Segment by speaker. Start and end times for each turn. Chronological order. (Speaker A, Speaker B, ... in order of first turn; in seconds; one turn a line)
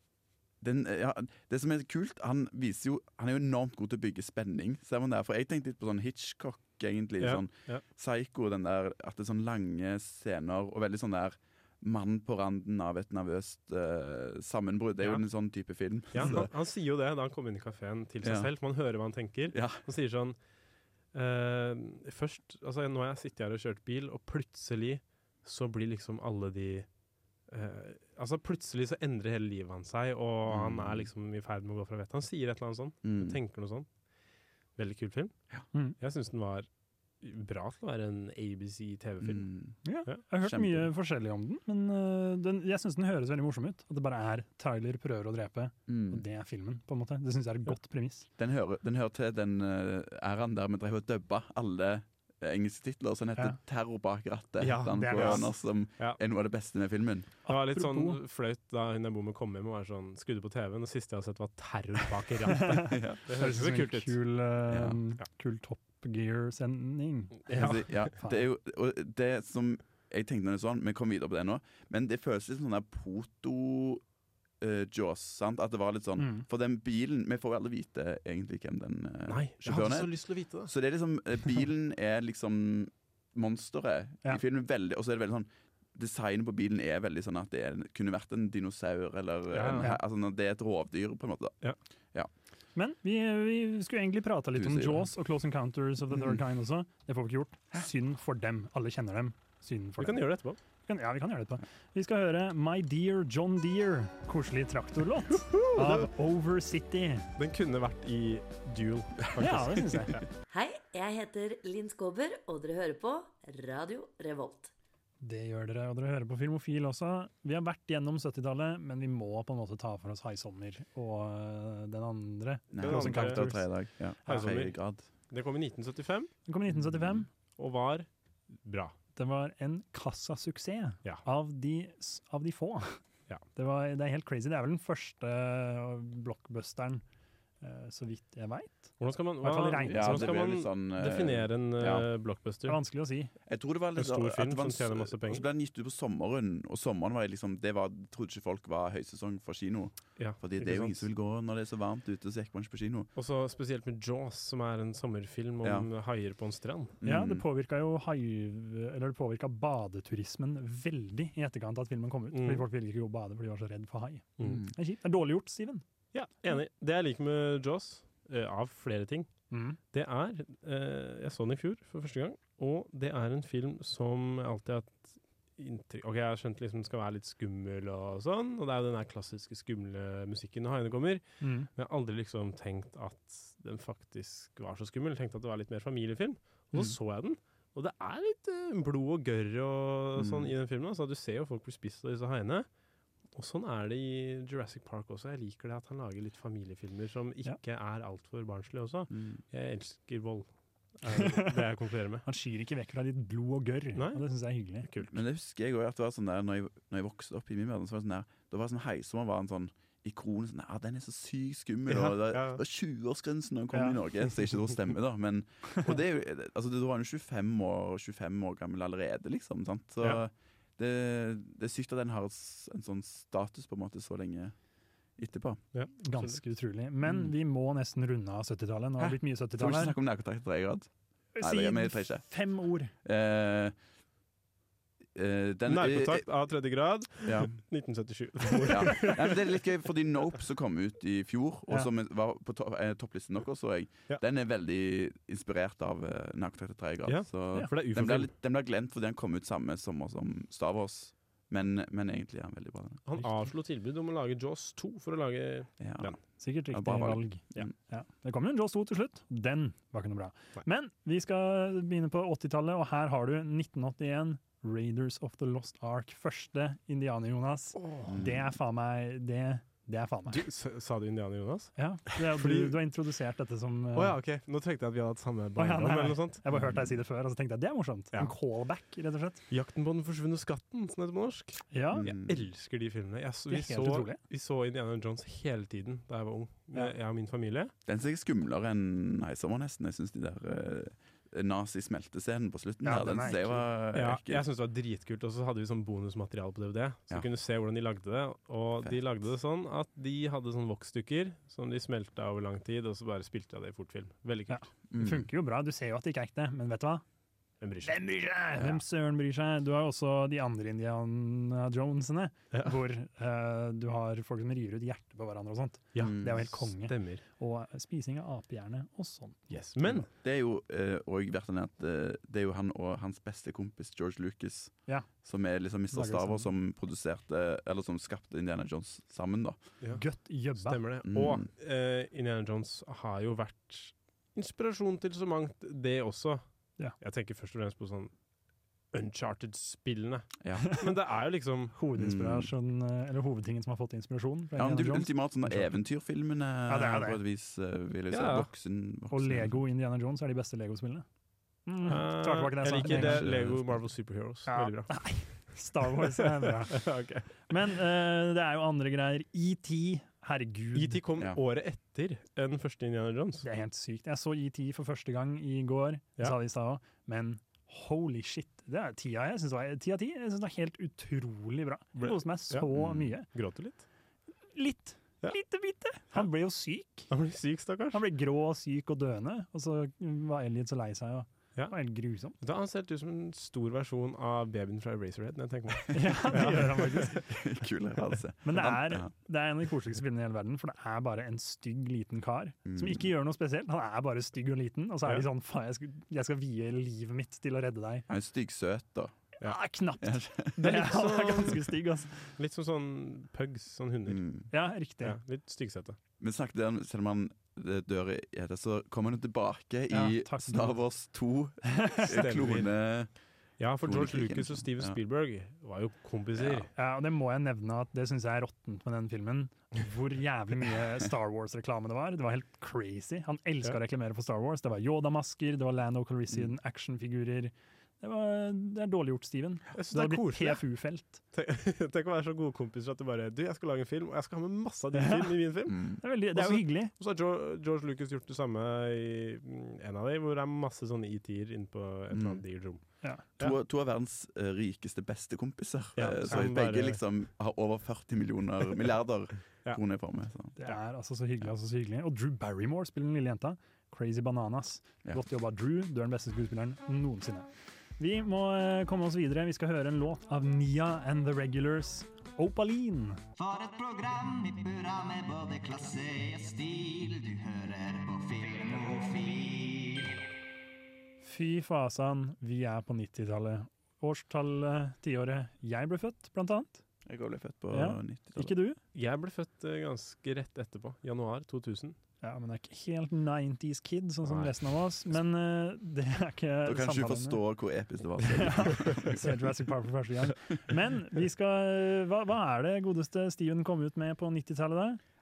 Speaker A: 0.6-16.5
Speaker B: 7.2-7.8
Speaker B: 16.1-20.4
Speaker A: 18.2-18.5
Speaker A: 19.5-19.8
Speaker B: 21.1-26.9
Speaker B: 27.5-33.9
Speaker A: 30.5-31.1
Speaker A: 33.0-33.4
Speaker B: 34.8-35.3
Speaker B: 36.0-36.7
Speaker B: 37.2-39.5
Speaker A: 39.2-39.8
Speaker C: 39.8-48.3
Speaker A: 40.4-40.9
Speaker A: 45.9-46.2
Speaker A: 48.4-57.3
Speaker B: 54.6-55.5
Speaker C: 54.9-55.5
Speaker C: 57.5-58.2
Speaker B: 57.5-64.2
Speaker C: 62.7-68.5
Speaker A: 62.8-63.2
Speaker A: 64.7-65.0
Speaker B: 67.5-67.8
Speaker A: 67.5-74.0
Speaker A: 74.6-91.6
Speaker C: 76.2-76.5
Speaker B: 79.3-80.7
Speaker B: 89.5-89.9
Speaker C: 92.7-100.2
Speaker A: 94.5-95.1
Speaker B: 100.0-100.6
Speaker C: 100.9-107.2
Speaker B: 105.4-106.1
Speaker B: 107.4-110.2
Speaker C: 109.4-110.2
Speaker D: 110.5-114.7
Speaker C: 115.2-123.7
Speaker A: 122.7-125.0
Speaker B: 122.8-123.4
Speaker B: 124.3-124.8
Speaker B: 125.3-126.3
Speaker C: 126.5-127.3
Speaker A: 126.7-127.2
Speaker B: 127.6-128.1
Speaker B: 128.6-128.9
Speaker C: 129.1-133.0
Speaker C: 133.5-137.0
Speaker C: 137.6-140.3
Speaker B: 139.0-142.8
Speaker A: 139.8-142.1
Speaker C: 142.7-143.3
Speaker A: 143.5-153.1
Speaker B: 143.9-145.4
Speaker B: 150.2-151.0
Speaker B: 153.1-156.9
Speaker A: 155.6-155.9
Speaker A: 157.0-157.4
Speaker C: 157.0-165.8
Speaker B: 162.3-162.7
Speaker A: 164.4-164.7
Speaker B: 166.1-169.3
Speaker C: 169.5-169.8
Speaker B: 169.9-192.7
Speaker C: 181.4-181.7
Speaker A: 190.2-190.5
Speaker B: 193.3-200.5
Speaker A: 199.1-199.4
Speaker B: 201.0-202.2
Speaker C: 201.1-201.5
Speaker C: 202.2-204.9
Speaker B: 203.9-204.2
Speaker B: 204.8-205.1
Speaker A: 205.0-224.5
Speaker B: 211.9-212.6
Speaker A: 225.2-225.6
Speaker B: 225.7-226.4
Speaker C: 226.0-229.9
Speaker A: 227.1-227.3
Speaker A: 229.0-232.2
Speaker C: 231.3-232.9
Speaker A: 233.0-233.8
Speaker A: 235.1-236.2
Speaker B: 235.7-239.4
Speaker A: 237.2-237.6
Speaker A: 238.6-253.0
Speaker B: 247.1-248.3
Speaker B: 253.1-256.2
Speaker A: 255.8-256.1
Speaker C: 256.4-270.4
Speaker A: 256.7-257.7
Speaker B: 267.8-268.2
Speaker A: 268.1-268.5
Speaker B: 270.3-272.8
Speaker C: 271.8-274.2
Speaker B: 273.9-276.4
Speaker C: 275.6-279.4
Speaker A: 276.5-277.0
Speaker B: 279.5-287.7
Speaker C: 281.7-282.1
Speaker A: 281.9-282.5
Speaker C: 283.5-284.2
Speaker A: 287.8-294.4
Speaker C: 292.8-293.7
Speaker B: 293.9-304.7
Speaker C: 304.5-307.0
Speaker A: 304.9-305.3
Speaker B: 307.6-307.9
Speaker C: 307.8-320.1
Speaker A: 308.6-308.8
Speaker B: 315.9-317.2
Speaker A: 316.0-316.6
Speaker B: 319.5-320.1
Speaker A: 320.1-329.6
Speaker C: 325.9-326.5
Speaker C: 329.9-330.8
Speaker B: 330.6-336.4
Speaker A: 331.1-331.5
Speaker B: 337.0-338.1
Speaker B: 338.9-341.7
Speaker A: 340.4-340.8
Speaker C: 341.7-345.7
Speaker A: 341.9-342.5
Speaker A: 344.6-349.6
Speaker C: 346.7-347.2
Speaker B: 348.1-348.5
Speaker C: 349.1-351.1
Speaker C: 351.6-353.2
Speaker B: 351.8-355.4
Speaker A: 352.8-353.8
Speaker C: 354.5-356.9
Speaker B: 356.2-357.3
Speaker C: 357.5-361.0
Speaker B: 360.7-363.4
Speaker C: 363.4-373.3
Speaker B: 371.9-372.7
Speaker A: 372.7-373.1
Speaker B: 373.3-373.8
Speaker C: 374.5-377.1
Speaker B: 377.1-378.0
Speaker C: 377.9-382.4
Speaker B: 382.4-387.2
Speaker C: 385.9-387.2
Speaker A: 387.1-389.1
Speaker C: 388.4-398.1
Speaker A: 392.6-393.1
Speaker A: 398.1-399.2
Speaker C: 399.4-402.2
Speaker A: 400.0-400.5
Speaker B: 400.6-401.7
Speaker B: 402.4-404.2
Speaker A: 404.1-404.5
Speaker C: 404.5-405.2
Speaker B: 405.0-406.0
Speaker A: 406.2-413.1
Speaker C: 409.9-410.8
Speaker C: 411.6-412.1
Speaker B: 412.1-412.7
Speaker B: 413.6-416.7
Speaker A: 413.8-415.0
Speaker A: 416.4-416.7
Speaker C: 416.8-431.2
Speaker B: 429.7-430.6
Speaker B: 431.3-443.6
Speaker C: 434.9-435.4
Speaker A: 435.7-436.0
Speaker C: 436.0-436.9
Speaker A: 442.1-442.4
Speaker A: 443.4-450.6
Speaker B: 445.9-447.0
Speaker C: 450.6-463.2
Speaker E: 463.4-470.0
Speaker C: 471.2-476.8
Speaker A: 477.0-478.5
Speaker C: 477.7-478.8
Speaker B: 478.9-481.9
Speaker C: 482.2-487.4
Speaker A: 486.6-489.3
Speaker C: 488.2-495.0